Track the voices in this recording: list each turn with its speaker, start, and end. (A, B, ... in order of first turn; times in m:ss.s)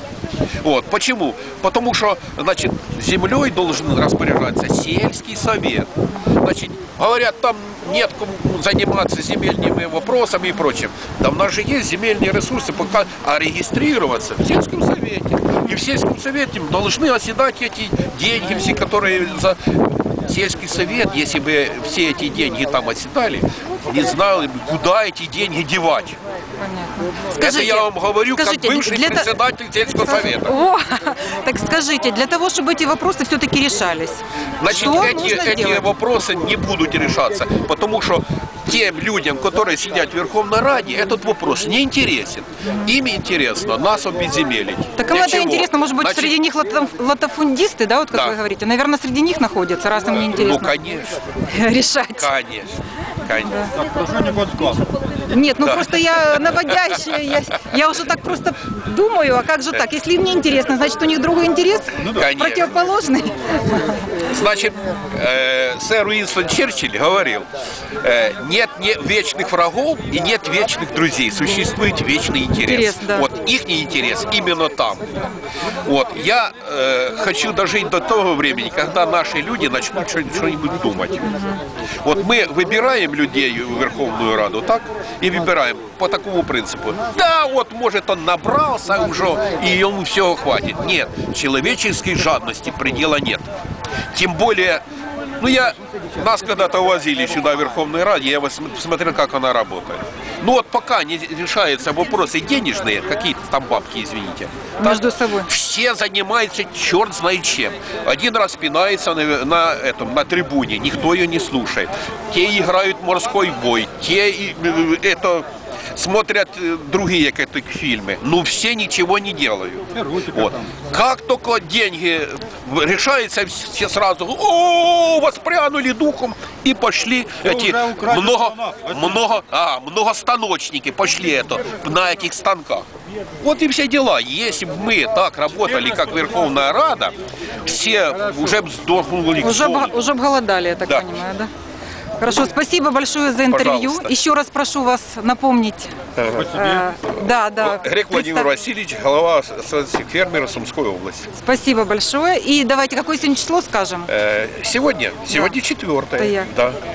0:00.6-0:05.9 A
0:06.4-0:26.2 A
0:26.6-0:29.3 B
0:27.4-0:30.6 A
0:29.9-0:35.9 B
0:34.6-0:46.4 A
0:42.6-0:43.0 B
0:45.0-0:50.8 B
0:50.1-0:51.3 A
0:51.5-0:52.3 B
0:52.2-0:53.7 A
0:53.4-0:54.2 B
0:53.8-0:54.8 C
0:55.3-1:04.2 B
0:55.6-0:57.6 A
1:02.0-1:02.8 A
1:04.3-1:07.5 A
1:08.0-1:15.1 A
1:12.5-1:13.3 B
1:15.7-1:21.3 A
1:21.2-1:21.6 B
1:22.0-1:33.5 A
1:34.1-1:34.8 A
1:35.4-2:12.9 A
1:44.8-1:45.5 B
2:07.6-2:08.8 C
2:13.4-2:19.9 A
2:19.4-2:21.5 B
2:22.2-2:28.5 B
2:23.5-2:24.1 A
2:26.2-2:26.7 A
2:27.6-2:31.3 A
2:31.3-2:34.1 B
2:34.1-2:36.8 A
2:35.3-2:35.6 B
2:36.2-2:36.5 B